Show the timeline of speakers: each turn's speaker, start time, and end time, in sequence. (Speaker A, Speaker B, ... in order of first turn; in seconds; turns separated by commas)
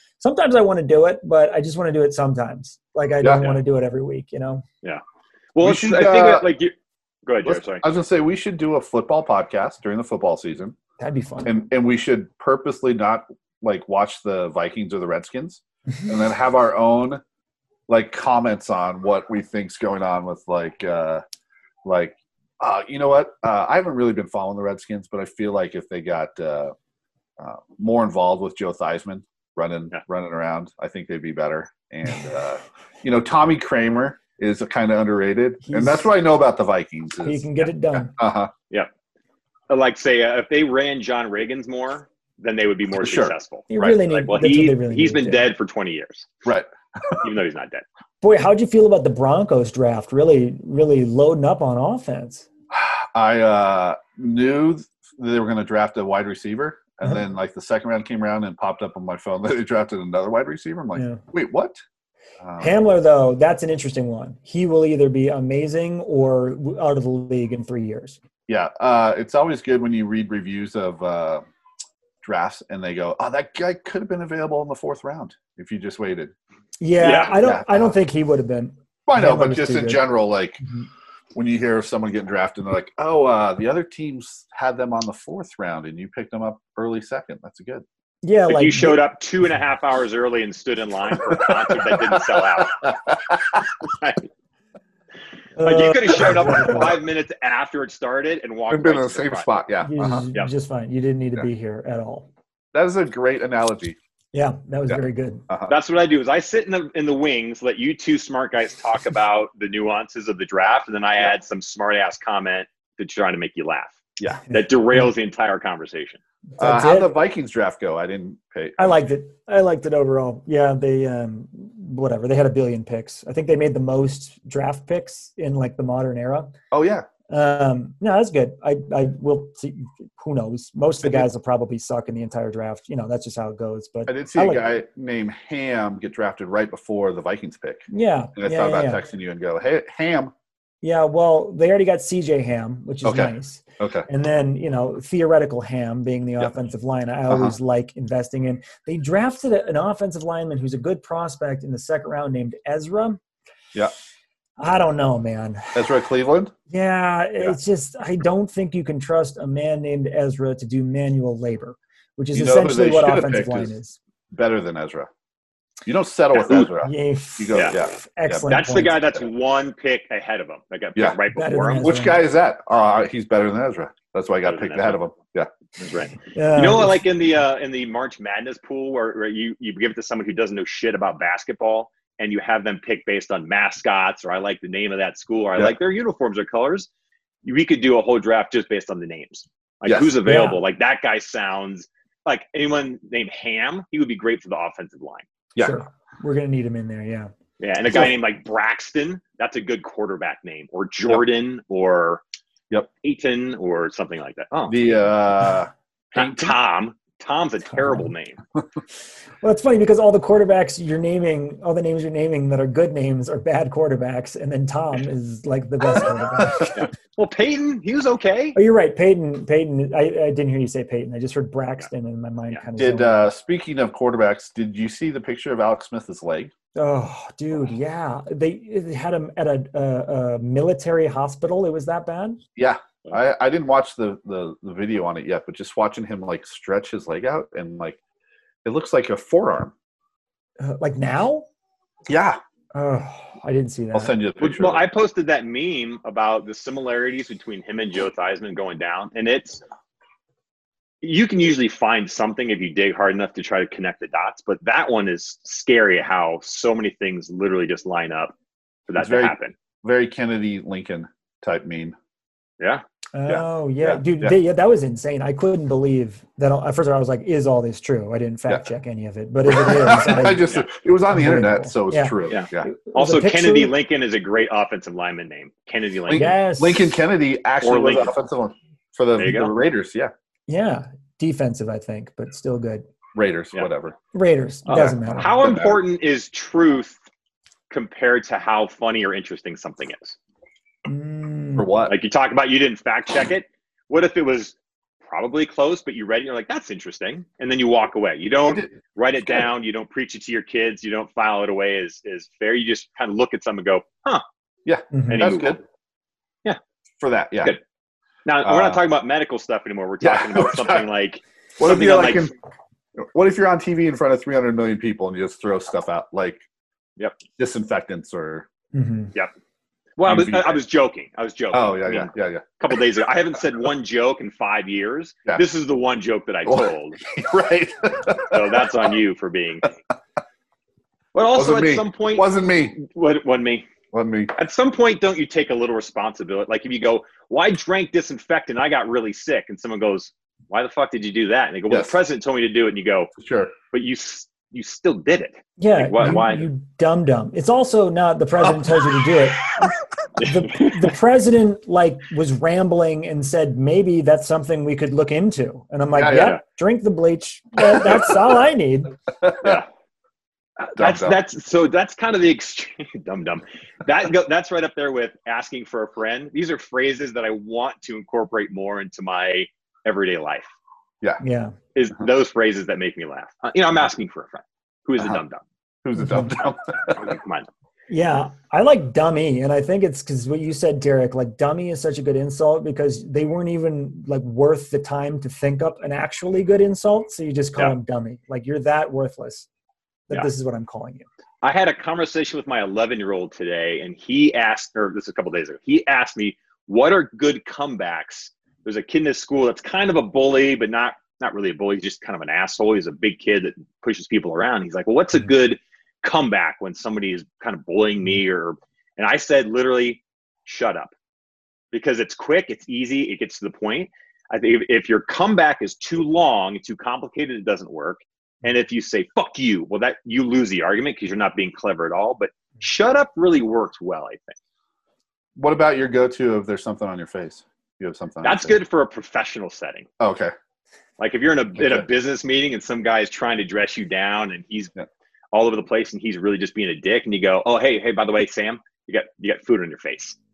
Speaker A: 0.2-4.6, Speaker B: 3.2-3.5, Speaker C: 5.5-6.7, Speaker B: 5.6-6.5, Speaker C: 7.2-7.8, Speaker B: 7.4-10.8, Speaker A: 11.0-11.5, Speaker B: 11.4-17.2, Speaker B: 17.9-21.2, Speaker B: 21.8-26.7, Speaker B: 27.4-38.5, Speaker A: 35.6-36.0, Speaker A: 37.2-38.1, Speaker C: 39.7-46.3, Speaker B: 43.0-44.0, Speaker A: 43.7-45.5, Speaker B: 46.4-47.3, Speaker C: 47.1-47.8, Speaker A: 48.2-52.5, Speaker B: 52.7-61.8, Speaker A: 61.0-61.2, Speaker B: 62.4-62.7, Speaker A: 62.6-68.2, Speaker B: 68.5-71.4, Speaker B: 72.2-76.3, Speaker A: 76.8-80.0, Speaker C: 77.0-77.3, Speaker B: 77.3-78.0, Speaker B: 79.0-80.6, Speaker B: 81.3-87.8, Speaker A: 88.2-89.0, Speaker C: 88.5-92.9, Speaker B: 91.3-93.7, Speaker C: 93.9-94.2, Speaker A: 95.6-96.9, Speaker C: 95.6-99.5, Speaker B: 98.7-100.3, Speaker A: 99.8-102.3, Speaker B: 102.7-104.0, Speaker A: 104.3-105.5, Speaker B: 104.9-105.7, Speaker C: 105.7-116.2, Speaker A: 116.6-117.1, Speaker B: 116.6-119.0, Speaker A: 118.8-126.5, Speaker B: 126.7-127.1, Speaker A: 127.3-134.7, Speaker B: 134.1-140.3, Speaker A: 137.9-139.0, Speaker A: 140.8-153.2, Speaker B: 143.0-144.1, Speaker B: 147.3-147.5, Speaker A: 154.6-155.8, Speaker B: 155.7-156.5, Speaker A: 156.7-164.0, Speaker B: 162.3-163.7, Speaker B: 164.3-165.1, Speaker B: 165.8-168.5, Speaker C: 166.3-166.7, Speaker A: 166.8-169.0, Speaker C: 168.5-171.9, Speaker A: 171.3-172.2, Speaker B: 171.8-175.5, Speaker C: 174.4-175.0, Speaker C: 175.8-186.9, Speaker A: 176.3-177.0, Speaker C: 187.4-195.2, Speaker B: 189.8-190.1, Speaker A: 190.2-190.6, Speaker A: 195.6-197.3, Speaker C: 197.6-202.2, Speaker C: 203.0-205.0, Speaker B: 204.7-206.6, Speaker C: 206.1-208.4, Speaker A: 209.4-216.9, Speaker C: 216.7-218.6, Speaker A: 218.5-223.2, Speaker B: 222.8-226.5, Speaker A: 226.7-232.4, Speaker B: 232.6-238.0, Speaker B: 238.6-239.7, Speaker A: 240.6-241.4, Speaker B: 242.1-242.4, Speaker A: 242.7-244.1, Speaker B: 243.9-244.8, Speaker C: 244.4-249.6, Speaker C: 251.0-258.3, Speaker C: 258.9-259.5, Speaker B: 259.0-261.9, Speaker A: 263.1-270.4, Speaker B: 263.3-264.3, Speaker B: 269.5-272.7, Speaker A: 271.1-273.7, Speaker C: 272.3-276.3, Speaker B: 276.1-280.1, Speaker A: 276.1-276.9, Speaker C: 277.6-278.1, Speaker C: 279.2-279.5, Speaker A: 280.5-282.9, Speaker B: 283.1-283.9, Speaker A: 284.1-285.3, Speaker C: 284.7-287.0, Speaker B: 284.8-285.8, Speaker C: 287.7-290.1, Speaker A: 290.9-291.7, Speaker B: 291.6-291.9, Speaker C: 291.9-304.2, Speaker B: 304.6-305.6, Speaker A: 304.9-305.3, Speaker C: 305.1-305.6, Speaker B: 307.0-307.5, Speaker C: 308.2-312.3, Speaker B: 308.4-308.8, Speaker B: 310.0-310.8, Speaker B: 311.6-312.3, Speaker B: 313.0-316.4, Speaker B: 317.4-318.5, Speaker A: 318.7-319.1, Speaker C: 320.0-327.0, Speaker B: 320.1-320.6, Speaker B: 321.5-322.7, Speaker B: 326.4-328.7, Speaker C: 328.3-329.7, Speaker C: 331.1-333.7, Speaker B: 331.3-332.8, Speaker B: 333.9-334.3, Speaker C: 334.4-343.1, Speaker B: 341.7-341.9, Speaker B: 343.1-343.5, Speaker C: 343.7-346.4, Speaker A: 345.6-358.9, Speaker C: 350.2-350.9, Speaker B: 355.9-356.4, Speaker C: 356.1-356.4, Speaker B: 357.8-358.1, Speaker B: 359.2-359.6, Speaker C: 359.4-359.6, Speaker C: 360.6-370.5, Speaker B: 360.8-361.2, Speaker A: 371.2-371.6, Speaker C: 371.7-375.4, Speaker B: 375.8-377.1, Speaker A: 376.0-376.3, Speaker C: 376.9-377.5, Speaker A: 377.9-389.5, Speaker A: 390.1-391.0, Speaker C: 391.4-410.9, Speaker C: 411.7-424.4, Speaker B: 425.4-428.6, Speaker C: 428.2-429.9, Speaker B: 430.0-430.3, Speaker C: 431.0-434.7, Speaker B: 431.6-431.9, Speaker C: 435.3-440.2